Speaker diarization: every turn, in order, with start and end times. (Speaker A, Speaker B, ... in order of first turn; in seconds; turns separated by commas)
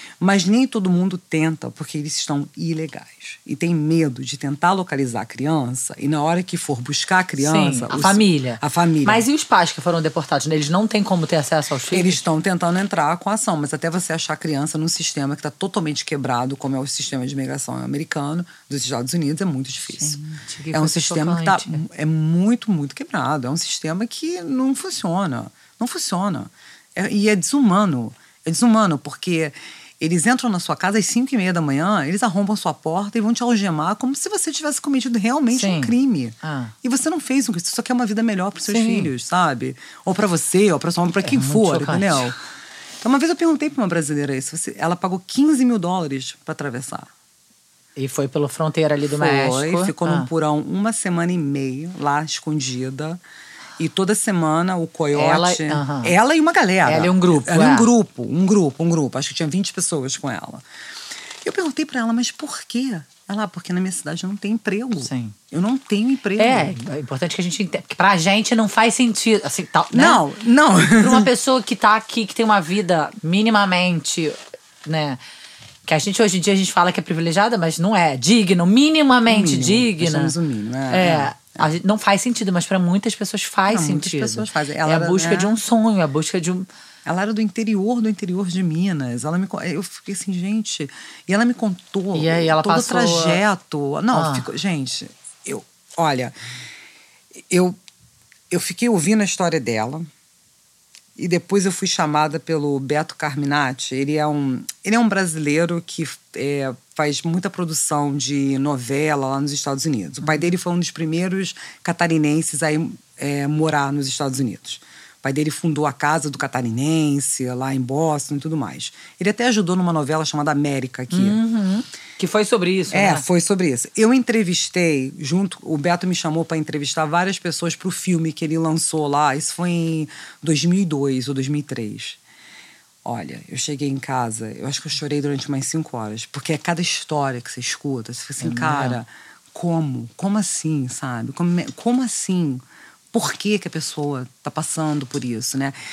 Speaker A: 0.2-9.3, Speaker B: 7.4-12.2, Speaker A: 11.9-20.2, Speaker B: 20.0-21.8, Speaker A: 20.7-42.4, Speaker B: 35.5-36.7, Speaker B: 38.7-39.1, Speaker B: 41.2-42.4, Speaker A: 43.0-47.1, Speaker B: 48.0-50.3, Speaker A: 49.1-53.2, Speaker A: 53.8-60.6, Speaker B: 55.1-56.1, Speaker B: 56.9-57.9, Speaker A: 61.4-66.8, Speaker B: 65.0-65.3, Speaker B: 66.4-70.2, Speaker A: 69.9-71.3, Speaker B: 71.0-75.2, Speaker B: 75.9-80.3, Speaker A: 79.3-81.7, Speaker B: 80.9-86.7, Speaker A: 83.7-85.6, Speaker A: 87.1-96.3, Speaker B: 92.1-93.4, Speaker B: 94.1-94.5, Speaker A: 97.5-97.8, Speaker A: 98.5-100.1, Speaker A: 101.2-121.4, Speaker B: 110.2-110.5, Speaker B: 121.1-123.2, Speaker A: 122.9-132.2, Speaker A: 133.1-145.8, Speaker B: 138.4-139.0